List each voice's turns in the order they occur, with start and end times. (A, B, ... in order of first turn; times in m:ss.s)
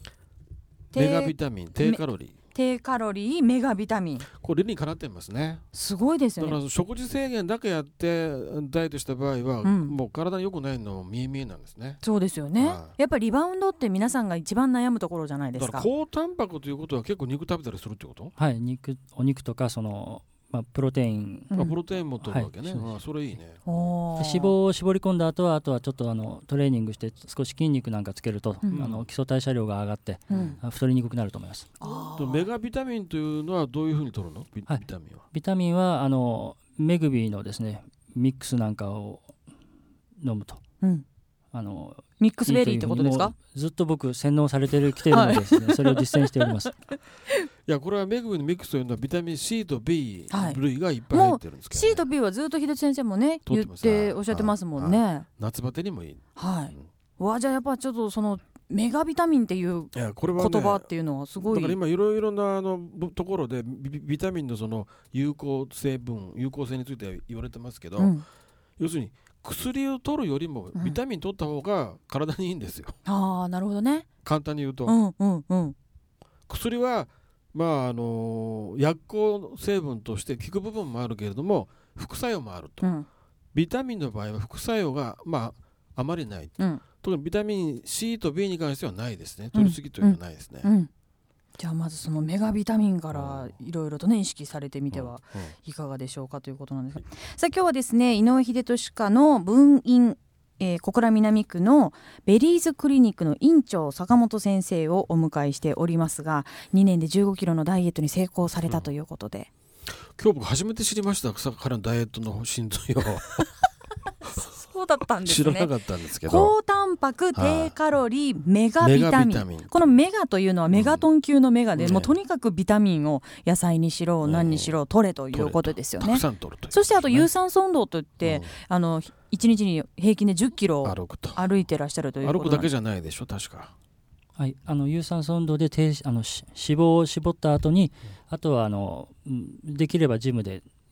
0:00.9-0:04.3 A
0:00.9-0:02.4 B
0:04.4-0:05.6 B
0:05.7-0:06.6 A
0:06.4-0:12.0 B
0:09.6-0:10.0 A
0:12.0-0:15.9 A
0:12.6-0:13.0 B
0:15.6-0:18.3 B
0:18.4-0:21.7 C
0:21.5-0:23.6 B
0:22.2-0:23.0 C
0:23.6-0:24.5 A
0:24.2-0:31.7 C
0:28.7-0:29.0 B
0:30.3-0:30.6 A
0:30.3-0:30.6 B
0:31.8-0:32.5 A
0:31.9-0:35.2 B
0:34.7-0:39.3 C
0:40.2-0:40.6 C
0:41.5-0:46.8 C
0:42.2-0:43.4 A
0:45.1-0:46.7 A
0:47.7-0:52.1 B
0:50.3-0:55.3 A
0:53.5-0:56.9 B
0:56.4-1:01.8 A
0:59.9-1:00.9 B
1:01.4-1:08.2 B
1:08.0-1:08.2 A
1:08.8-1:13.0 B
1:13.1-1:14.1 A
1:14.2-1:15.0 B
1:14.9-1:15.8 A
1:16.5-1:22.9 B
1:22.8-1:23.1 A
1:23.5-1:30.7 B
1:29.5-1:30.9 A
1:31.6-1:49.5 A
1:33.1-1:33.5 B
1:34.9-1:35.6 B
1:50.2-1:53.4 B
1:54.3-2:12.7 A
1:55.2-1:56.6 B
1:57.3-1:57.7 B
1:58.8-1:59.9 B
2:00.7-2:01.1 B
2:01.8-2:02.1 B
2:04.2-2:04.8 B
2:05.3-2:07.3 B
2:08.2-2:08.5 B
2:10.8-2:11.5 B
2:12.2-2:13.7 B
2:14.4-2:20.6 C